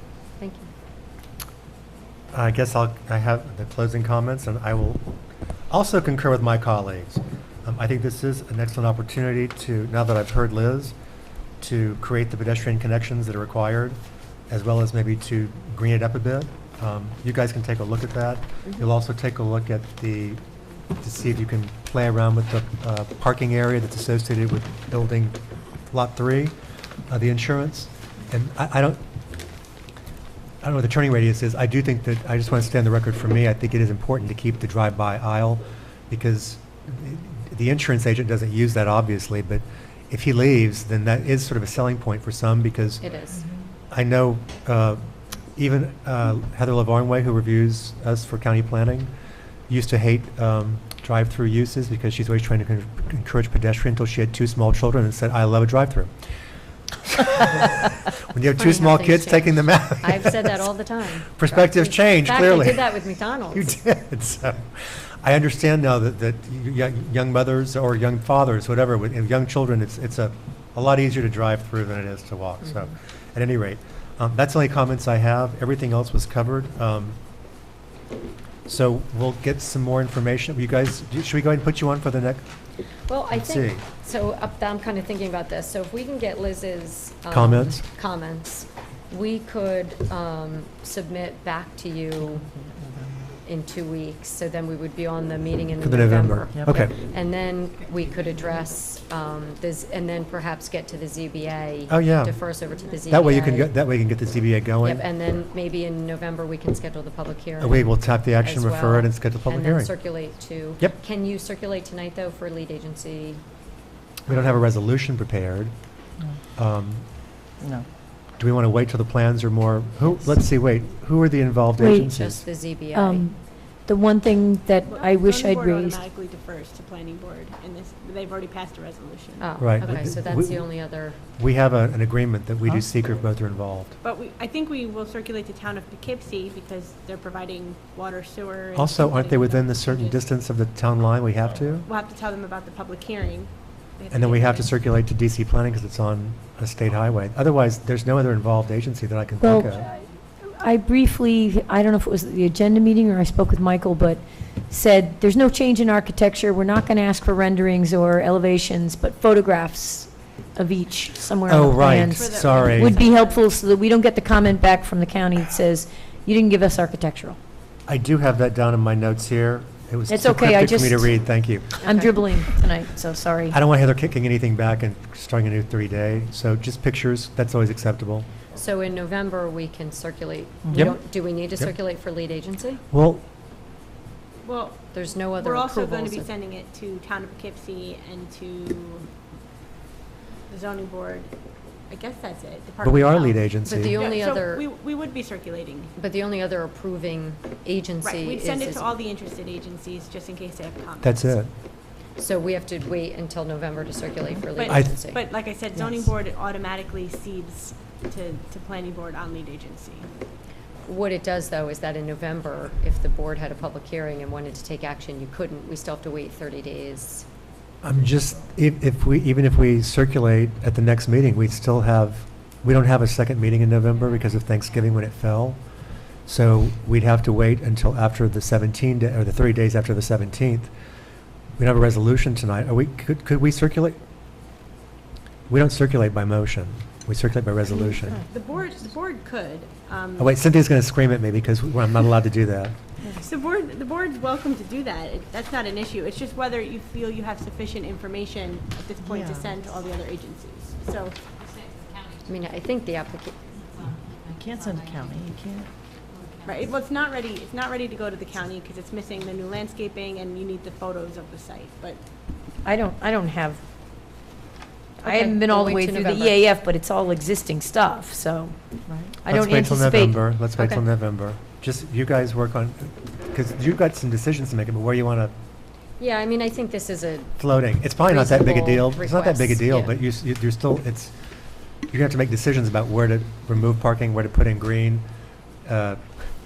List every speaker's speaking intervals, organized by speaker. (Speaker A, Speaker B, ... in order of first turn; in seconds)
Speaker A: 0.4-0.7, 43.0-43.4, 58.6-63.7, 83.1-92.5, 93.5-103.8, 104.8-113.4, 122.2-123.2, 129.4-131.2, 171.8-172.1, 178.5-182.8, 184.9-186.3, 193.7-194.7, 196.0-198.9, 202.2-205.2, 210.9-217.2, 252.2-253.8, 265.1-266.4, 270.6-270.8, 276.0-277.4, 278.0-280.0
Speaker B: 2.3-5.0, 5.7-10.9, 11.6-14.0, 14.5-20.4, 21.0-25.4, 25.9-26.5, 27.1-29.0, 30.6-43.0, 43.9-45.0, 45.6-49.1, 49.7-56.1, 57.0-60.6, 61.3-63.0, 63.5-77.2, 78.7-82.5, 83.3-83.8, 87.3-87.8, 95.8-97.0, 101.9-102.3, 103.1-105.0, 107.6-110.0, 114.3-115.7, 116.6-117.1, 118.4-122.5, 129.6-130.7, 131.3-133.9, 138.8-141.9, 144.1-149.9, 161.5-163.0, 167.9-171.8, 173.5-178.3, 180.7-181.0, 182.9-183.2, 192.8-194.0, 201.0-201.5, 204.7-205.0, 217.8-225.6, 226.3-230.7, 231.6-234.0, 235.5-238.2, 240.2-242.8, 269.3-275.3, 277.4-281.1, 281.9-285.1, 285.6-286.0
Speaker C: 92.5-93.2, 96.5-96.8, 117.6-117.9, 180.7-180.9, 249.0-249.5, 253.8-255.7, 268.9-269.2
Speaker D: 121.8-122.2, 122.9-126.0, 149.4-167.4, 170.1-171.2, 171.8-173.6, 262.6-263.6, 265.0-270.3
Speaker E: 124.9-130.0, 134.0-140.2, 141.8-144.7, 162.1-163.5, 184.4-189.1, 190.5-191.3, 191.9-195.9, 198.0-201.4, 204.6-210.1, 238.3-240.4, 243.2-251.2, 256.4-262.0